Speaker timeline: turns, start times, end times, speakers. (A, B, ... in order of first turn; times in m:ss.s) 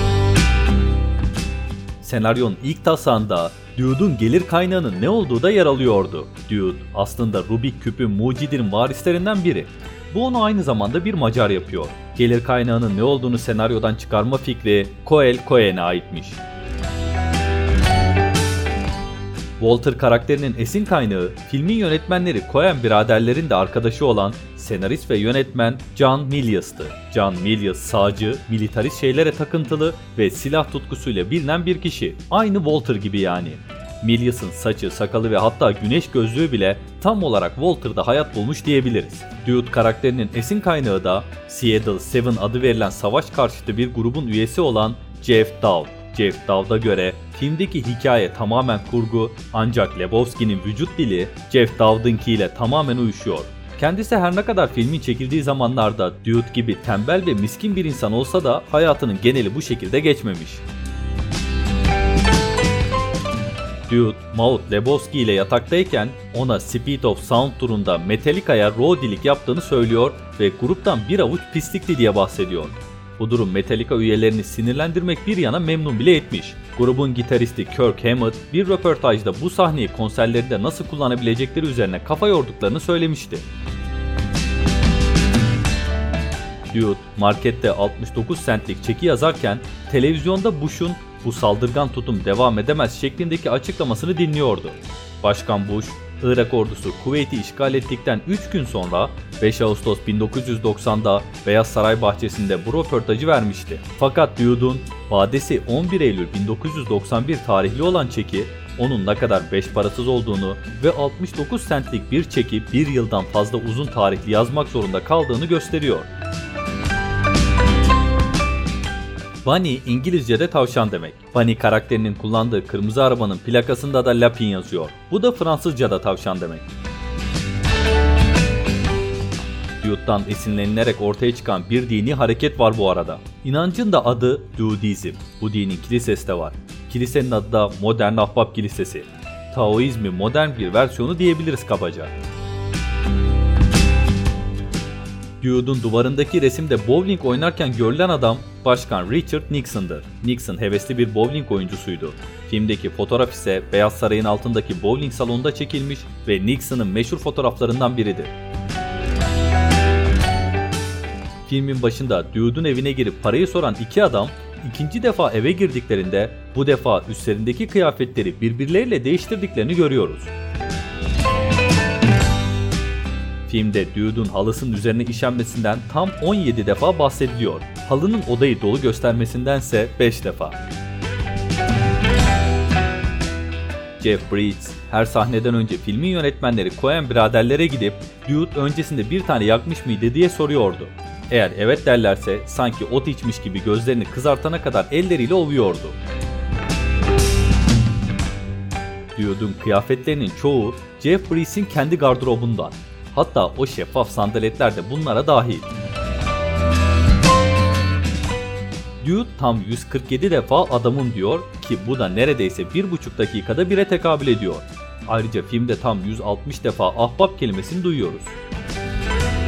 0:02.0-0:16.4 A
0:19.6-1:00.6 A
1:03.9-1:23.4 A
1:26.7-1:56.1 A
1:59.4-2:06.6 A
2:09.8-2:22.1 A
2:25.4-2:38.3 A
2:41.5-2:50.3 A
2:53.5-3:00.6 A
3:04.0-3:16.0 A
3:19.1-3:25.7 A
3:29.0-3:38.4 A